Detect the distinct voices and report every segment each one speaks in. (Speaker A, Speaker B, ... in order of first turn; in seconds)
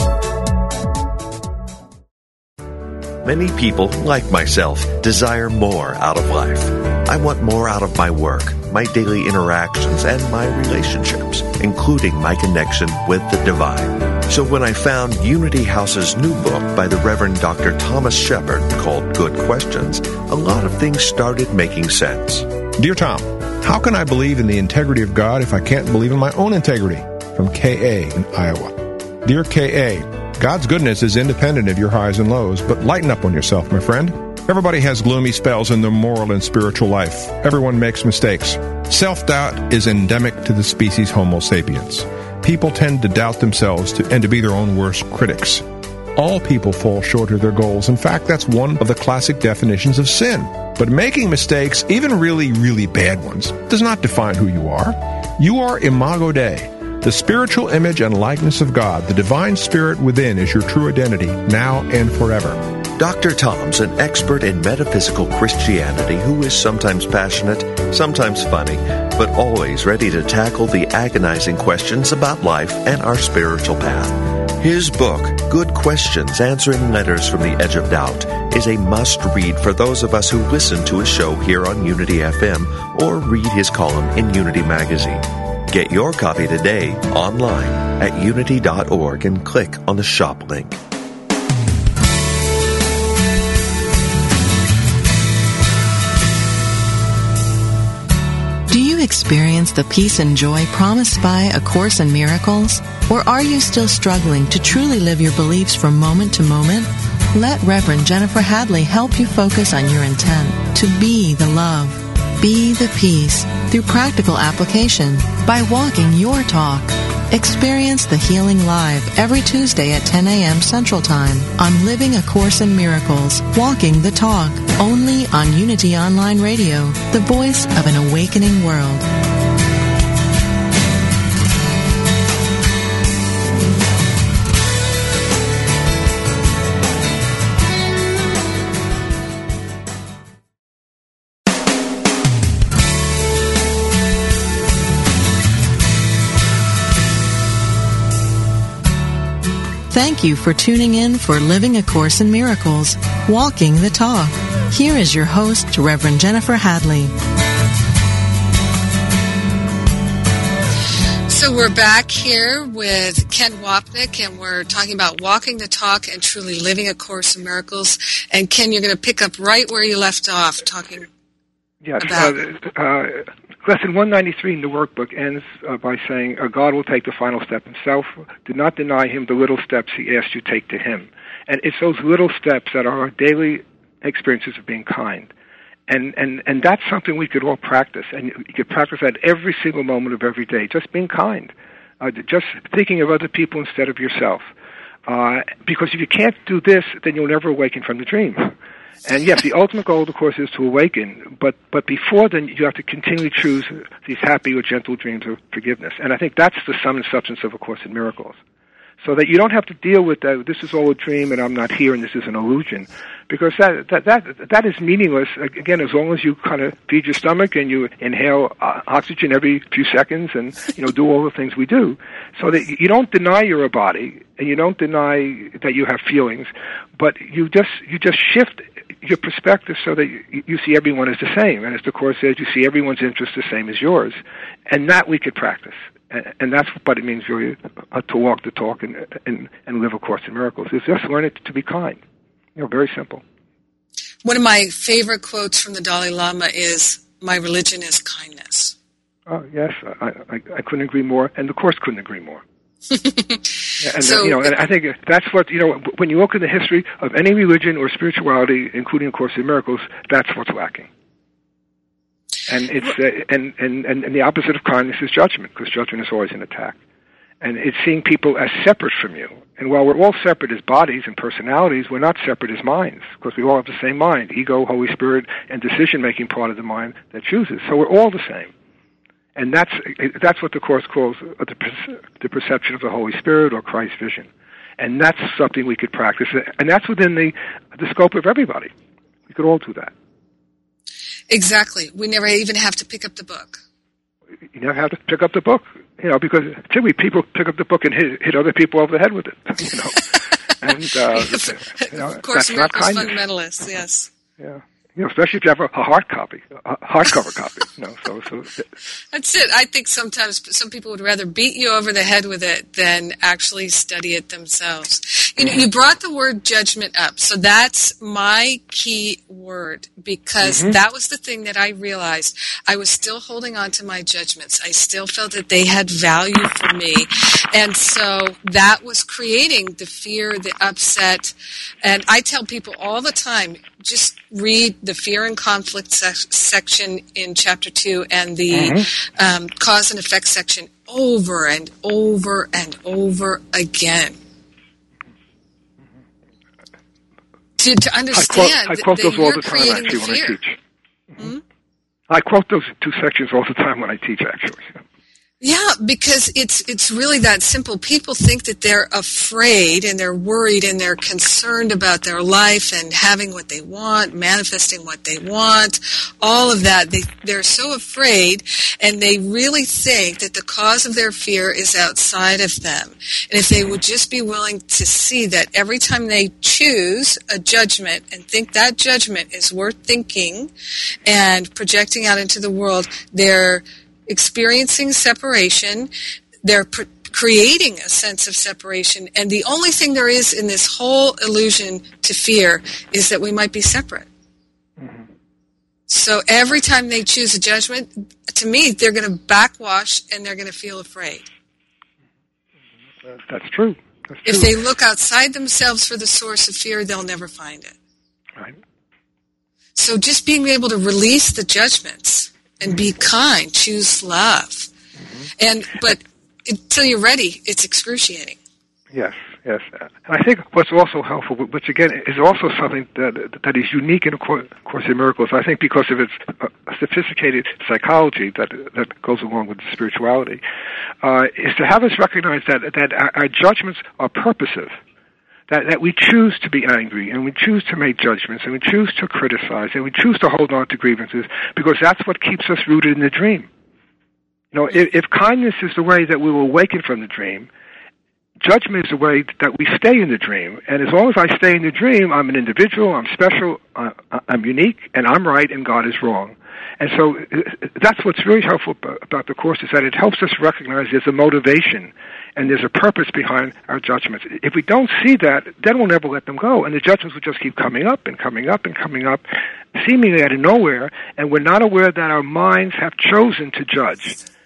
Speaker A: 3.2-22.5, 63.0-90.8
Speaker B: 22.8-45.6, 46.2-62.6
Speaker C: 98.7-129.1, 149.9-157.1
Speaker D: 161.3-171.1, 172.0-172.4, 244.2-248.8, 252.9-254.7, 291.3-293.6, 301.1-304.1, 309.1-344.2, 347.6-350.4, 355.4-380.5, 381.1-385.9, 386.4-394.1, 395.9-401.3, 404.2-407.7, 409.8-414.7, 415.4-418.4
Speaker E: 171.8-185.3, 185.9-194.5, 195.1-208.4, 209.0-242.0, 242.6-243.2, 249.3-252.4, 253.8-260.9, 262.5-266.8, 267.4-278.5, 279.4-288.7, 289.3-289.9, 294.5-303.2, 304.4-308.7, 320.4-320.8, 338.5-338.9, 348.1-350.6, 352.1-354.8, 394.8-395.1, 403.1-404.6, 418.9-430.4, 431.0-434.8, 435.5-443.5, 444.5-447.5, 448.4-474.2